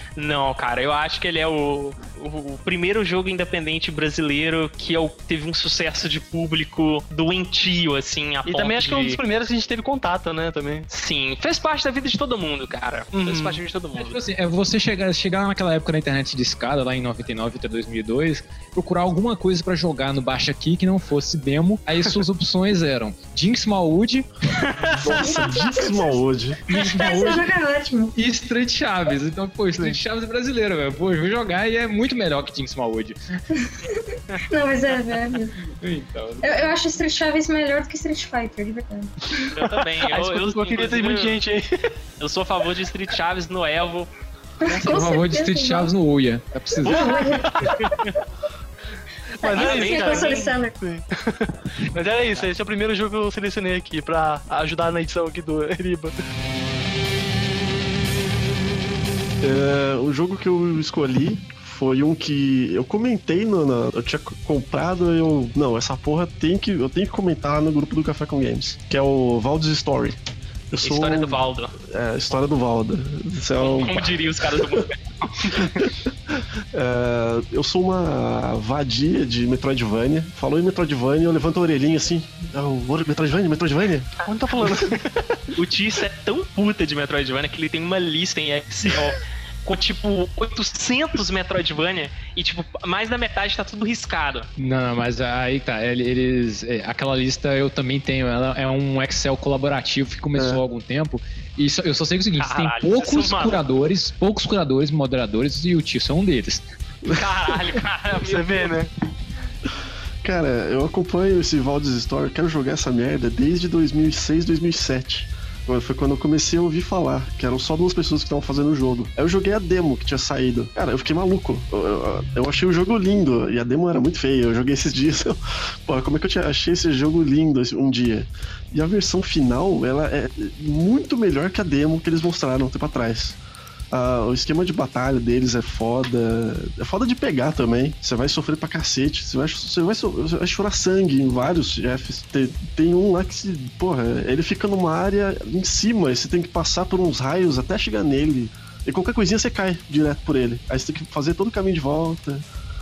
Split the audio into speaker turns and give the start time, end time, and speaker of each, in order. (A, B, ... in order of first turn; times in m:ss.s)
0:00.2-0:09.2 A
0:08.5-0:10.9 B
0:10.9-0:14.2 A
0:13.1-0:13.6 B
0:14.0-0:24.3 C
0:24.7-0:25.2 A
0:25.0-0:26.6 D
0:25.2-0:26.1 E
0:26.7-0:27.5 C
0:26.7-0:28.2 E
0:28.2-0:33.2 C
0:33.6-0:35.7 E
0:35.8-0:36.7 C
0:36.4-0:39.4 E
0:39.5-0:41.4 A
0:39.6-0:41.9 B
0:42.2-0:44.1 A
0:44.6-0:45.9 E
0:44.6-0:47.2 C
0:46.8-0:47.7 E
0:46.9-0:47.8 A
0:47.5-0:47.9 B
0:49.4-0:56.1 B
0:49.4-0:50.8 E
0:49.5-0:50.5 A
0:59.4-1:10.2 D
1:10.7-1:14.8 D
1:10.8-1:11.7 A
1:13.6-1:15.9 A
1:16.7-1:24.1 D
1:24.2-1:25.0 B
1:24.6-1:24.8 A
1:25.5-1:34.5 A
1:34.6-1:46.7 C
1:40.4-1:40.6 D
1:42.4-1:43.6 A
1:47.1-1:48.7 A
1:48.2-1:48.9 B
1:50.2-2:13.4 D
2:13.9-2:32.5 D